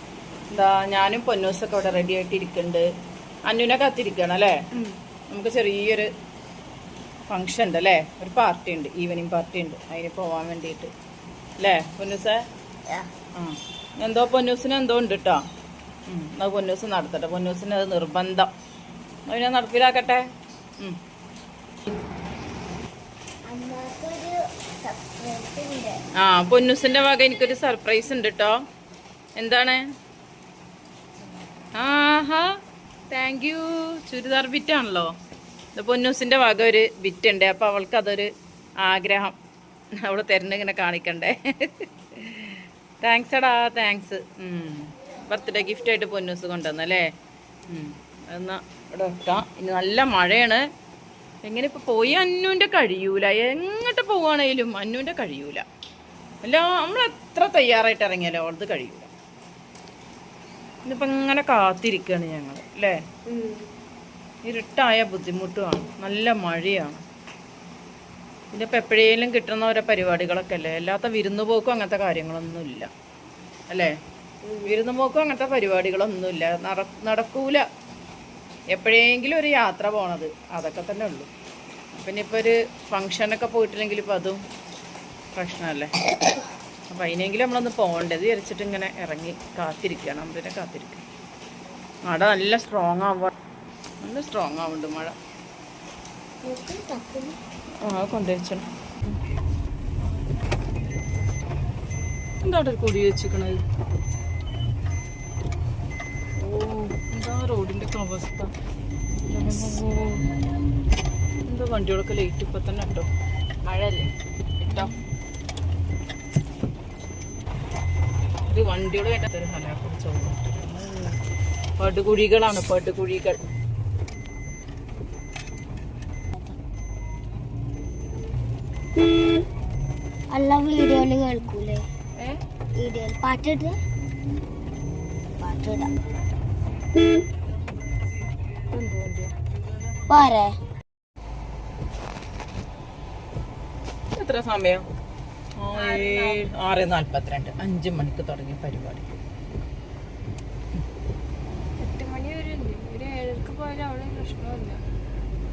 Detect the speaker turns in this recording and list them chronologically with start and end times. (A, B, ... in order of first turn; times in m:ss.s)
0:00.5-0:02.8 A
0:03.5-0:04.6 A
0:05.3-0:06.1 A
0:07.3-0:10.9 A
0:11.6-0:12.4 A
0:13.4-0:15.4 A
0:16.1-0:18.5 A
0:19.3-0:20.3 A
0:23.5-0:26.0 B
0:26.2-0:28.6 A
0:29.4-0:29.8 A
0:31.8-0:32.5 A
0:33.1-0:35.1 A
0:35.8-0:38.3 A
0:38.8-0:39.4 A
0:40.0-0:47.1 A
0:47.7-0:50.6 A
0:51.4-0:55.6 A
0:56.4-0:59.1 A
1:00.8-1:03.0 A
1:04.4-1:07.0 A
1:08.5-1:12.9 A
1:14.6-1:17.6 A
1:18.7-1:21.3 A
1:22.0-1:24.4 A
1:25.4-1:25.9 A
1:26.9-1:31.0 A
1:32.1-1:33.3 A
1:34.0-1:35.2 A
1:36.4-1:37.4 B
1:37.9-1:38.6 A
1:42.4-1:43.6 A
1:46.4-1:48.5 A
1:49.3-1:50.2 A
1:51.5-1:53.1 A
1:53.6-1:54.1 C
1:54.6-1:54.9 C
1:54.6-1:55.0 A
1:58.5-2:01.1 A
2:01.8-2:03.4 A
2:10.3-2:11.9 B
2:12.8-2:13.8 B
2:15.4-2:15.9 B
2:18.7-2:19.3 A
2:20.1-2:20.6 B
2:24.2-2:24.8 A
2:25.6-2:29.1 A
2:25.7-2:26.4 C
2:31.8-2:34.8 C